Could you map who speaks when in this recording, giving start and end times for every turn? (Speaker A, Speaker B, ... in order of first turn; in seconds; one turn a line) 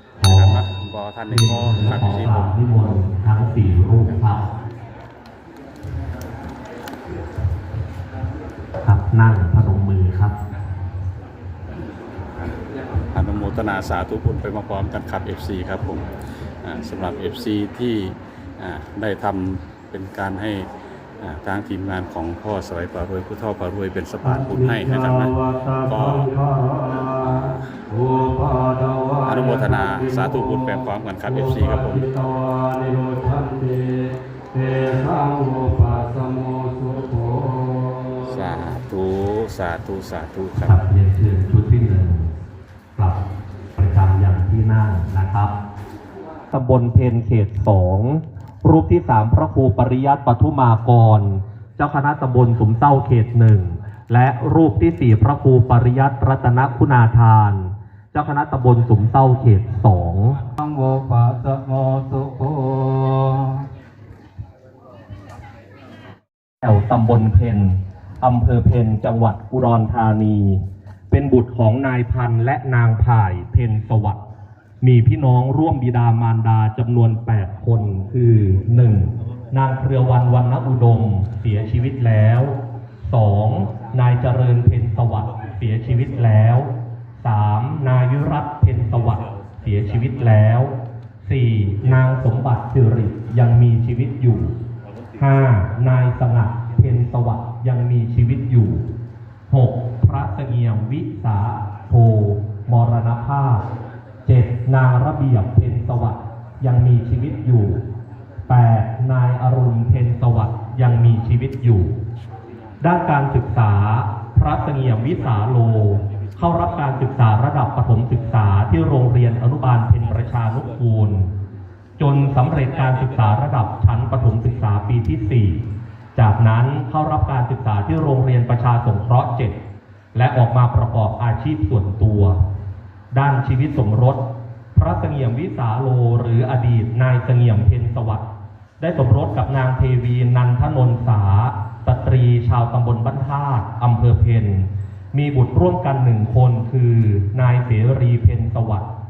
Speaker A: 0.2-0.6
Speaker B: 0.3-2.6
Speaker A: 1.3-4.5
Speaker A: 8.8-10.3
Speaker B: 13.1-16.1
Speaker B: 16.6-20.7
Speaker B: 21.2-26.4
Speaker C: 24.2-38.4
Speaker B: 27.2-27.7
Speaker B: 29.2-32.1
Speaker B: 38.2-40.8
Speaker A: 40.6-42.3
Speaker A: 43.8-45.5
Speaker A: 46.5-60.4
Speaker C: 60.6-63.7
Speaker A: 66.6-74.2
Speaker A: 74.8-94.6
Speaker A: 95.2-98.9
Speaker A: 99.5-103.7
Speaker A: 104.3-107.8
Speaker A: 108.5-112.0
Speaker A: 112.8-121.3
Speaker A: 122.0-129.6
Speaker A: 130.1-132.4
Speaker A: 133.1-134.2
Speaker A: 134.8-138.3
Speaker A: 138.8-148.9